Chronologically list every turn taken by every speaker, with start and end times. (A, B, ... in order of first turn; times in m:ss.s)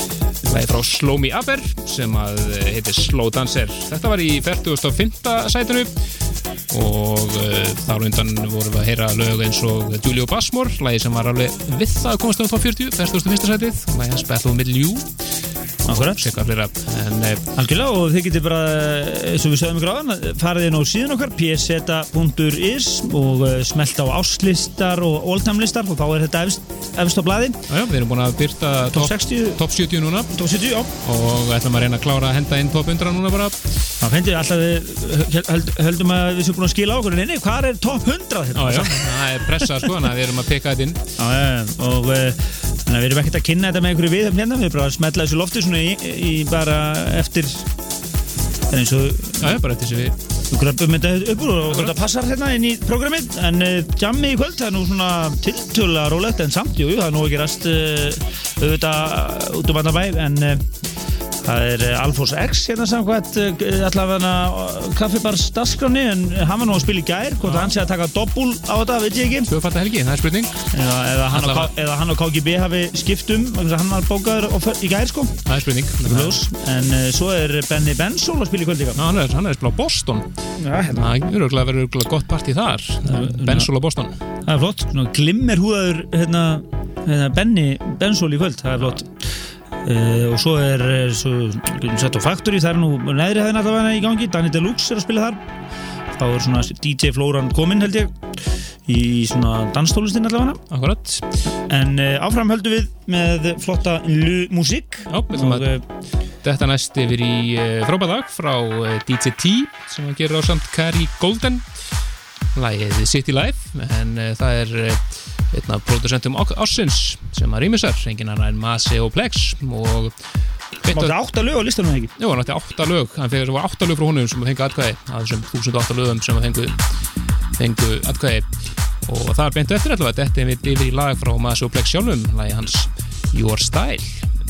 0:00.4-0:05.9 A
0:06.7-0:15.1 A
0:15.8-0:16.2 B
0:15.9-0:17.5 A
0:17.5-0:27.6 B
0:27.7-0:30.3 A
0:28.9-0:29.6 B
0:30.3-0:30.9 B
0:31.0-0:33.7 A
0:34.0-0:39.9 B
0:38.5-0:41.0 A
0:41.2-0:47.7 B
0:48.7-0:49.5 B
0:49.4-0:50.2 A
0:50.5-1:00.7 B
0:51.7-0:52.0 A
1:01.4-1:09.5 B
1:07.4-1:07.7 A
1:09.5-1:10.6 A
1:10.7-1:15.4 B
1:11.3-1:11.7 A
1:15.4-1:16.4 A
1:16.0-1:19.0 B
1:19.0-1:20.3 A
1:20.6-1:21.2 B
1:20.9-1:24.2 A
1:23.0-1:23.7 B
1:24.4-1:29.2 B
1:29.8-1:35.4 B
1:36.2-1:38.2 B
1:38.9-1:40.6 B
1:40.7-1:41.4 A
1:41.7-1:45.8 B
1:45.1-1:45.7 A
1:46.4-1:51.6 A
1:52.5-2:00.1 A
2:00.8-2:01.2 A
2:00.9-2:02.1 B
2:02.2-2:06.8 A
2:07.6-2:08.4 A
2:09.0-2:14.3 A